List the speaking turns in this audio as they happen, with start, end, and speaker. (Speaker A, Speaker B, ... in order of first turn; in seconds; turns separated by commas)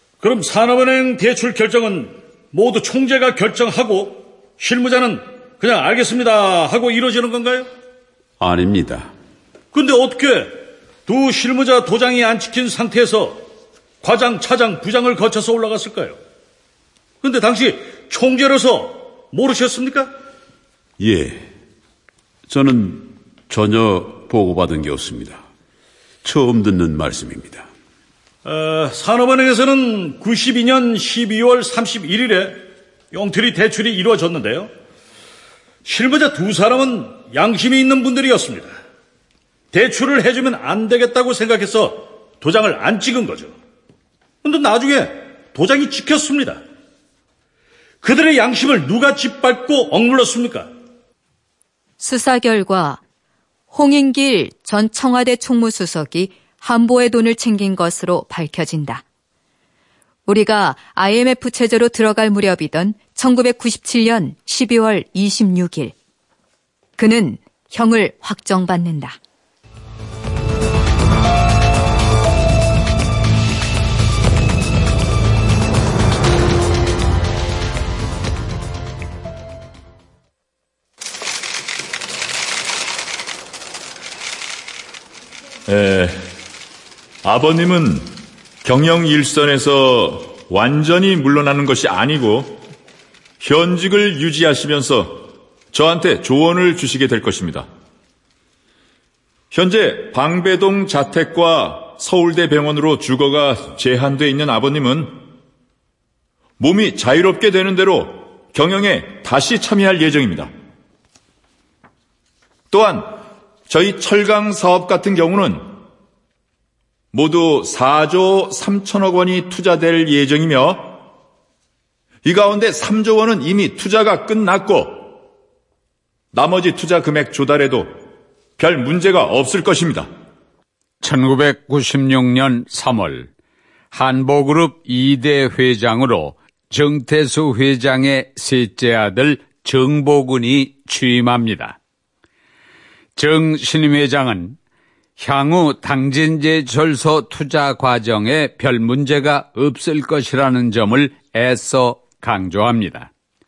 Speaker A: 0.2-7.7, Speaker B: 8.4-9.1, Speaker A: 9.7-13.4, Speaker A: 14.0-16.2, Speaker A: 17.2-20.1, Speaker B: 21.0-21.5, Speaker B: 22.5-25.4, Speaker B: 26.2-27.7, Speaker A: 28.4-34.7, Speaker A: 35.8-38.7, Speaker A: 39.7-43.5, Speaker A: 44.4-46.6, Speaker A: 48.0-50.7, Speaker C: 52.0-53.0, Speaker C: 53.7-59.0, Speaker C: 60.3-65.9, Speaker C: 67.0-69.2, Speaker D: 85.7-86.3, Speaker D: 87.2-88.1, Speaker D: 88.6-92.6, Speaker D: 93.4-97.7, Speaker D: 99.5-105.2, Speaker D: 106.6-110.5, Speaker D: 112.7-115.8, Speaker D: 117.1-121.0, Speaker D: 122.2-125.2, Speaker D: 126.3-128.0, Speaker D: 128.6-130.1, Speaker E: 131.0-133.3, Speaker E: 133.9-141.8, Speaker E: 143.2-144.5, Speaker E: 145.2-153.1